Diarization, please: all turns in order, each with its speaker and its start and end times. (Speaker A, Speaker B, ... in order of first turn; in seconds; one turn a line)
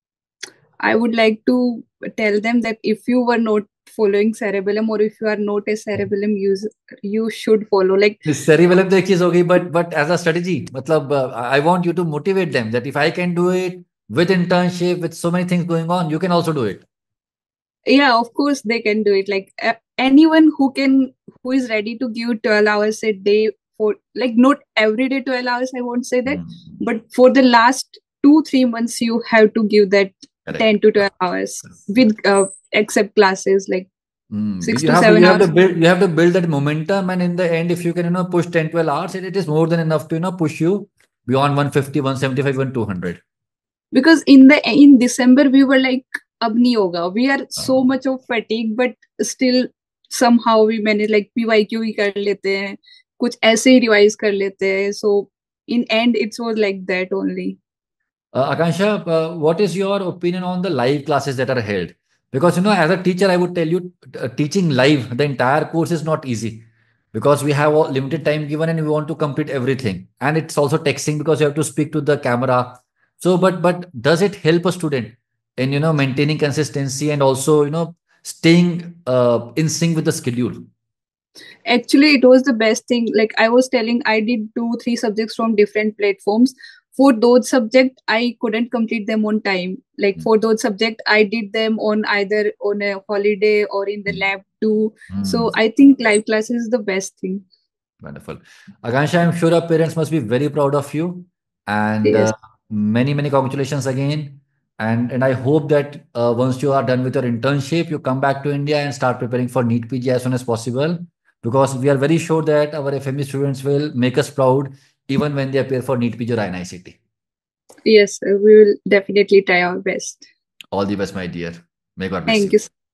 Speaker A: 0.8-8.2
Speaker B: 8.2-16.8
Speaker A: 17.9-33.9
Speaker B: 26.3-26.8
Speaker B: 34.3-43.2
Speaker A: 34.6-35.5
Speaker A: 43.9-57.6
Speaker B: 58.3-80.7
Speaker A: 81.7-97.4
Speaker B: 95.1-95.5
Speaker B: 98.0-117.0
Speaker A: 102.0-102.3
Speaker A: 117.8-120.2
Speaker B: 120.7-122.5
Speaker A: 122.3-122.7